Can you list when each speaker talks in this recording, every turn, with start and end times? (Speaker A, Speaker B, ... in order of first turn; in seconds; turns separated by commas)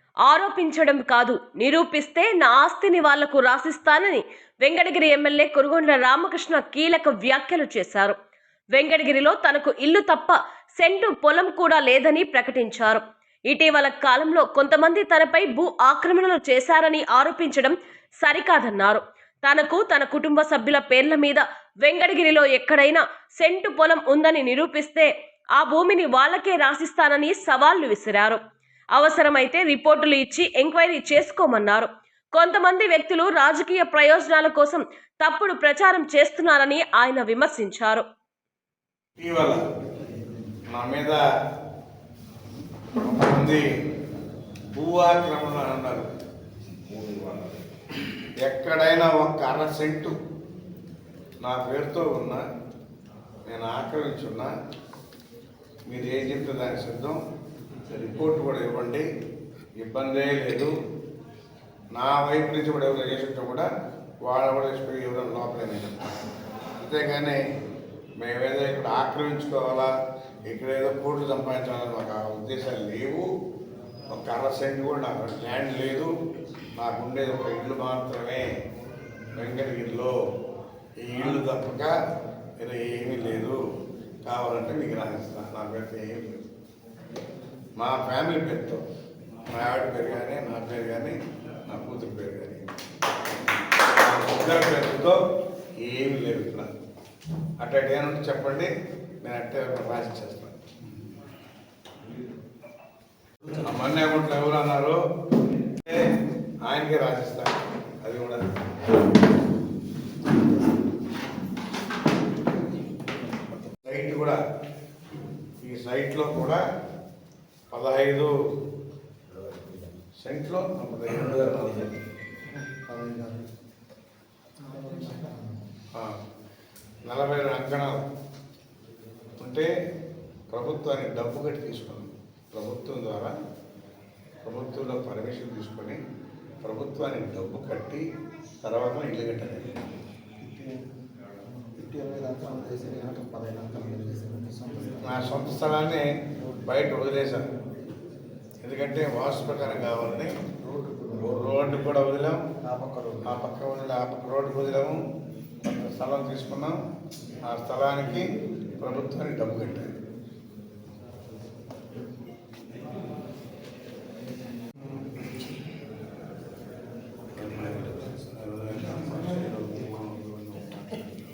Speaker A: 0.2-8.1, Speaker A: 8.7-28.4, Speaker A: 28.9-38.0, Speaker B: 39.2-39.6, Speaker B: 40.7-41.2, Speaker B: 43.0-43.6, Speaker B: 44.7-46.1, Speaker B: 48.4-50.1, Speaker B: 51.4-52.4, Speaker B: 53.5-54.5, Speaker B: 55.9-57.2, Speaker B: 57.9-59.1, Speaker B: 59.8-60.7, Speaker B: 61.9-63.7, Speaker B: 64.2-66.2, Speaker B: 66.8-67.4, Speaker B: 68.2-69.9, Speaker B: 70.5-73.2, Speaker B: 74.1-76.1, Speaker B: 76.8-78.5, Speaker B: 79.3-80.2, Speaker B: 81.0-81.9, Speaker B: 82.6-83.6, Speaker B: 84.2-86.4, Speaker B: 87.8-88.8, Speaker B: 89.5-92.7, Speaker B: 93.9-95.2, Speaker B: 95.8-96.7, Speaker B: 97.6-98.7, Speaker B: 99.2-100.6, Speaker B: 103.5-105.0, Speaker B: 105.7-106.1, Speaker B: 106.6-108.4, Speaker B: 113.8-114.4, Speaker B: 115.6-116.6, Speaker B: 117.7-118.3, Speaker B: 120.2-121.9, Speaker C: 122.8-123.5, Speaker C: 124.6-125.6, Speaker B: 127.0-128.0, Speaker B: 129.4-129.7, Speaker B: 130.5-133.3, Speaker B: 134.4-136.0, Speaker B: 136.6-138.0, Speaker B: 138.6-139.8, Speaker C: 140.4-140.8, Speaker C: 141.8-145.1, Speaker B: 145.0-146.1, Speaker C: 146.4-146.8, Speaker B: 146.6-147.4, Speaker B: 148.6-150.3, Speaker C: 150.6-151.4, Speaker B: 151.2-152.4, Speaker C: 152.6-153.3, Speaker B: 153.2-155.0, Speaker B: 155.6-156.8, Speaker B: 157.5-158.3, Speaker B: 158.8-159.9, Speaker B: 167.3-171.0